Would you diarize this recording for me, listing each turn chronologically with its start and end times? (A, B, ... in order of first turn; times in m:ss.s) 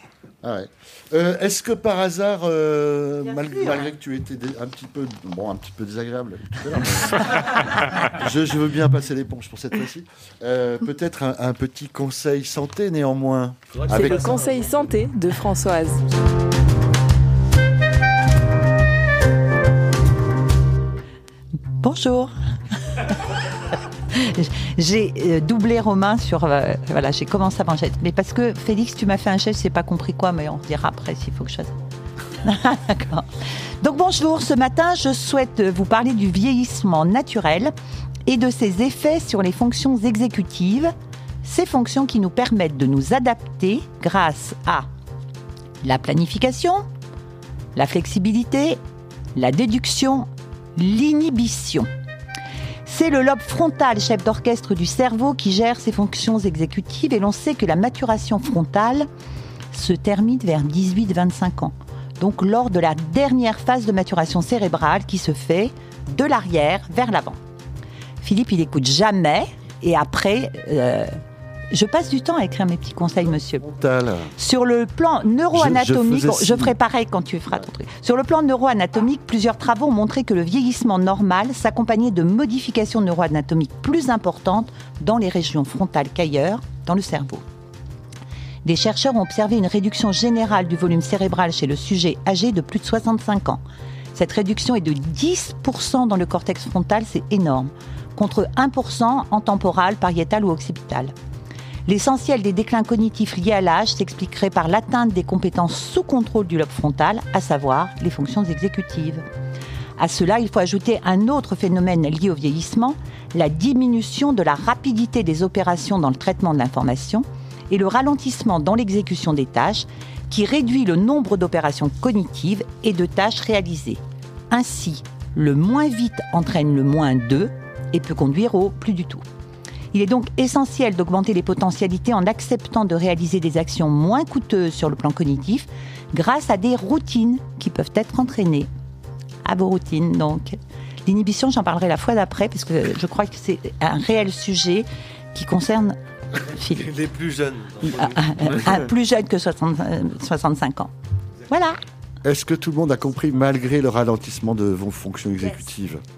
0:00.4-0:14.3 A
0:13.7-0:15.0 B
0:13.9-0:16.0 C
0:21.8-0:22.3 D
0:24.1-0:31.7 D
0:32.4-0:33.3 D
0:33.8-0:37.7 D
0:38.3-0:44.9 D
0:45.8-0:46.9 D
0:47.7-0:48.8 D
0:49.4-0:51.9 D
0:52.8-0:59.1 D
0:59.7-1:07.4 D
1:08.2-1:11.2 D
1:11.7-1:13.6 D
1:13.6-1:14.3 A
1:14.4-1:27.4 D
1:15.5-1:16.8 A
1:28.6-1:33.6 D
1:34.1-1:41.1 D
1:41.9-1:49.2 D
1:50.0-2:04.0 D
2:04.5-2:09.2 D
2:09.9-2:18.7 D
2:19.4-2:26.9 D
2:26.8-2:28.8 B
2:27.8-2:30.9 D
2:31.5-2:31.8 D
2:32.2-2:36.0 A